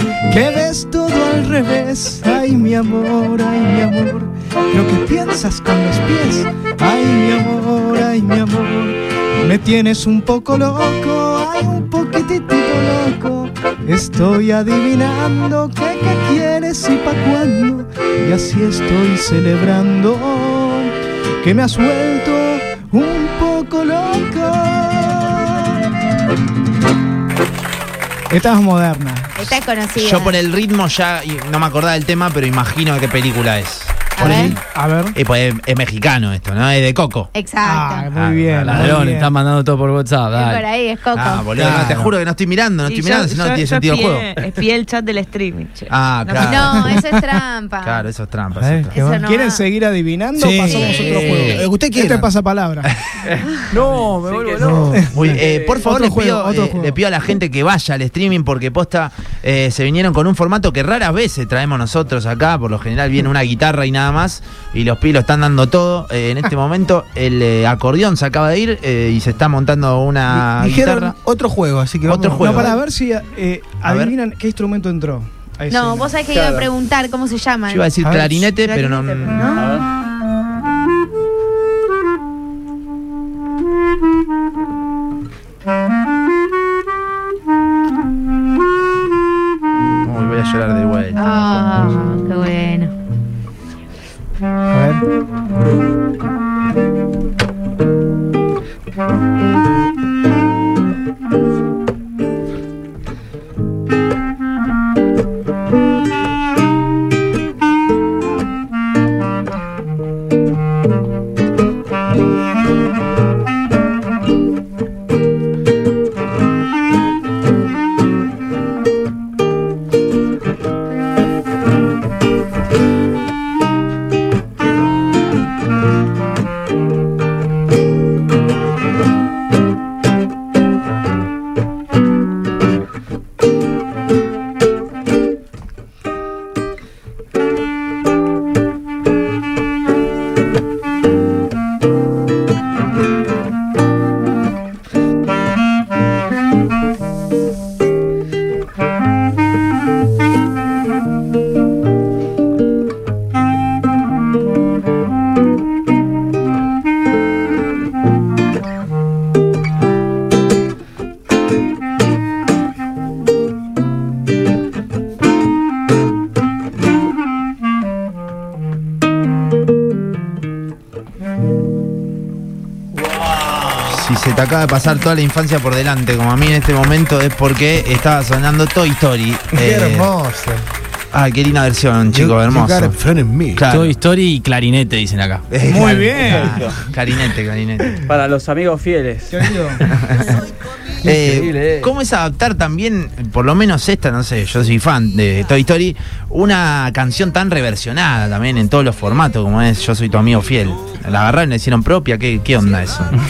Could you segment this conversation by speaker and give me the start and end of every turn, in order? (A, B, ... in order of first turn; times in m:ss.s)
0:00.3-0:25.8 A
0:28.3-0:29.4 A
0:29.4-0:30.4 B
0:30.0-0:34.6 C
0:34.2-0:34.6 B
0:34.2-0:35.2 A
0:35.2-0:37.3 C
0:37.3-0:38.1 B
0:37.6-0:39.3 A
0:38.1-0:39.0 C
0:38.6-0:40.6 D
0:40.3-0:41.5 B
0:41.1-0:44.3 C
0:41.6-0:42.1 E
0:42.8-0:46.8 F
0:45.9-0:46.8 C
0:46.4-0:48.0 B
0:46.8-0:47.2 A
0:47.8-0:48.9 C
0:48.6-0:49.2 E
0:48.9-0:49.6 B
0:49.2-0:53.0 A
0:50.4-0:52.3 E
0:50.7-0:51.7 B
0:53.7-0:57.0 A
0:53.7-0:55.9 G
0:53.9-0:54.8 D
0:54.6-0:55.3 E
0:55.1-1:11.2 C
1:10.3-1:12.8 E
1:12.0-1:12.8 C
1:12.4-1:16.2 A
1:13.8-1:14.1 C
1:15.7-1:17.9 B
1:16.3-1:16.7 G
1:17.7-1:19.6 C
1:18.0-1:18.5 E
1:18.7-1:19.6 B
1:19.5-1:19.9 G
1:30.0-1:31.8 C
1:31.2-1:32.9 B
1:34.7-1:35.0 E
2:53.3-2:53.8 E
2:53.8-3:00.1 C
2:59.5-3:00.6 E
3:01.1-3:03.0 C
3:02.1-3:03.7 E
3:03.6-3:04.0 C
3:03.6-3:06.4 D
3:05.5-3:08.0 C
3:05.7-3:06.6 A
3:08.0-3:09.5 G
3:09.3-3:09.8 A
3:09.9-3:10.4 C
3:11.0-3:23.1 C
3:11.0-3:11.9 D